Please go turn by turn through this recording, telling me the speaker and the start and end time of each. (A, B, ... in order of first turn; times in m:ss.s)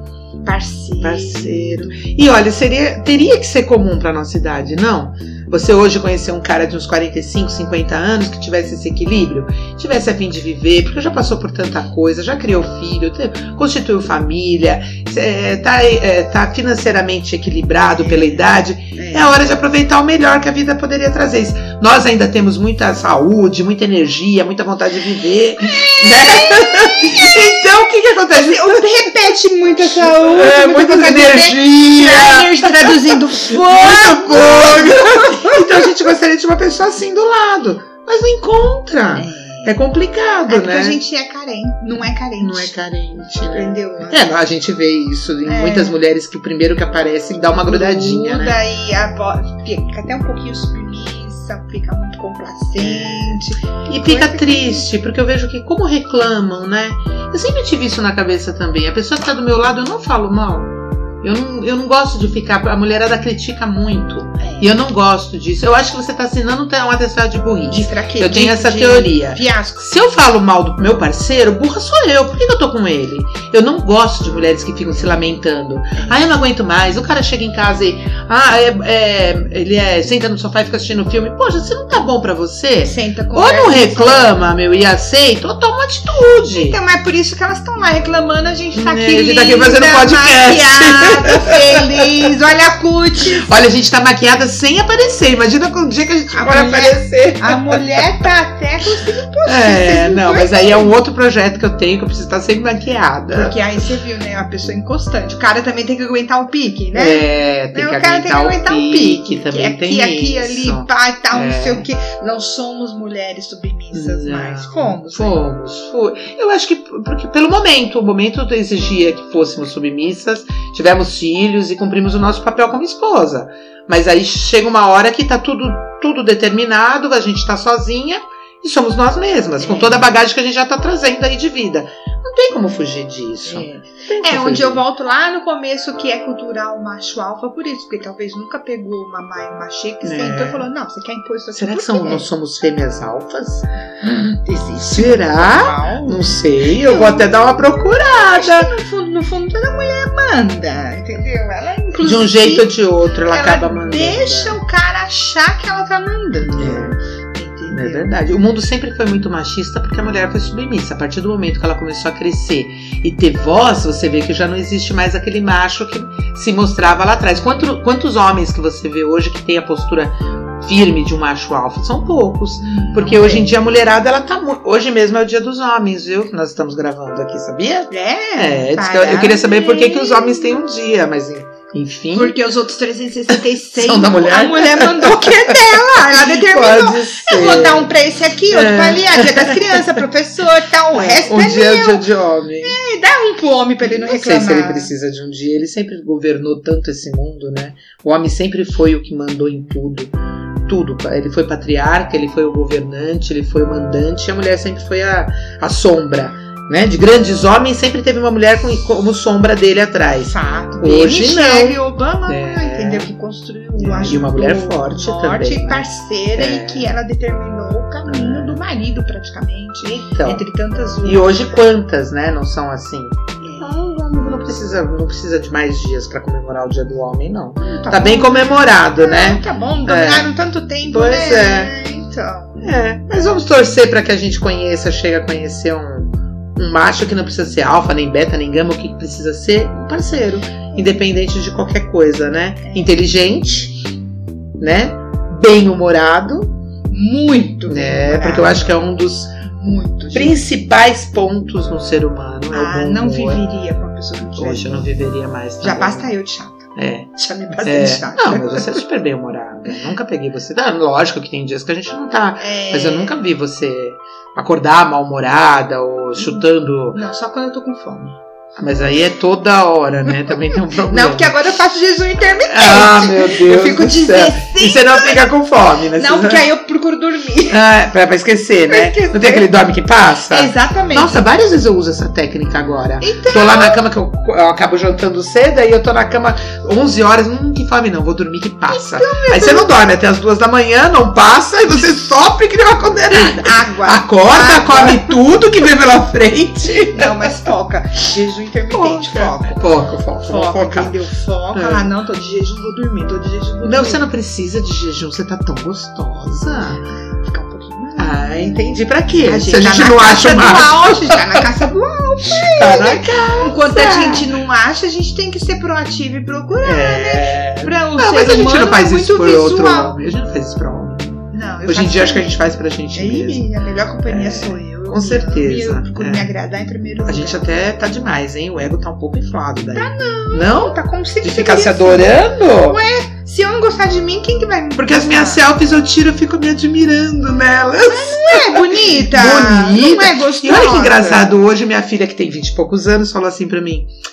0:00.4-0:02.1 A
0:01.0-0:29.1 B
0:17.9-0:19.4 A
0:25.6-0:27.8 A
0:28.3-0:36.0 A
0:29.8-0:41.0 B
0:39.2-0:39.8 A
0:40.5-0:42.7 A
0:42.4-0:48.6 B
0:43.4-0:44.3 A
0:45.4-0:46.0 A
0:47.6-0:54.9 A
0:52.8-1:26.8 B
1:04.4-1:04.8 A
1:07.7-1:09.9 A
1:16.0-1:16.2 A
1:22.8-1:24.4 A
1:26.5-1:33.6 A
1:28.7-1:32.3 B
1:33.4-1:38.1 B
1:36.3-1:41.0 A
1:39.4-1:43.6 B
1:43.3-1:55.4 A
1:46.9-1:51.9 B
1:53.9-2:14.8 B
2:09.6-2:10.1 A
2:13.4-2:22.3 A
2:20.0-2:20.6 B
2:21.5-2:28.7 B
2:24.0-2:32.7 A
2:32.0-2:34.6 B
2:33.3-2:38.1 A
2:36.4-2:37.0 B
2:37.7-3:02.4 B
2:52.6-2:53.6 A
2:57.9-3:00.6 A
3:02.1-3:12.1 A
3:03.3-3:07.9 B
3:08.5-3:10.0 B
3:10.9-3:12.8 B
3:12.6-3:14.9 A
3:13.8-3:20.1 B
3:20.6-3:33.1 B
3:30.2-3:41.5 A
3:33.8-3:36.9 B
3:38.0-3:38.6 B
3:39.8-3:40.4 B
3:41.0-3:50.3 B
3:43.4-3:43.8 A
3:47.6-3:52.8 A
3:50.9-3:51.7 B
3:52.6-4:03.8 B
4:02.6-4:03.0 A
4:04.6-4:06.5 B
4:06.9-4:08.9 A
4:07.7-4:09.4 B
4:09.4-4:10.4 A
4:10.1-4:13.4 B
4:12.5-4:15.0 A
4:14.4-4:16.1 B
4:15.6-4:18.9 A
4:16.8-4:27.0 B
4:22.4-4:23.2 A
4:26.9-4:28.2 A
4:28.6-4:31.4 B
4:30.1-4:35.3 A
4:32.5-4:36.5 B
4:35.9-4:37.6 A
4:37.5-4:57.2 B
4:38.7-4:39.5 A
4:40.3-4:41.3 A
4:43.0-4:43.8 A
4:48.7-4:49.7 A
4:53.3-4:55.2 A
4:56.6-4:59.6 A
4:58.7-5:01.0 B
5:00.2-5:04.0 A
5:01.5-5:01.9 B
5:03.6-5:06.8 B
5:06.9-5:20.0 A
5:08.0-5:11.6 B
5:12.3-5:14.3 B
5:16.6-5:23.5 B
5:21.3-5:27.5 A
5:24.1-5:26.3 B
5:27.0-5:32.8 B
5:29.7-5:35.4 A
5:34.8-5:43.9 B
5:37.8-5:41.3 A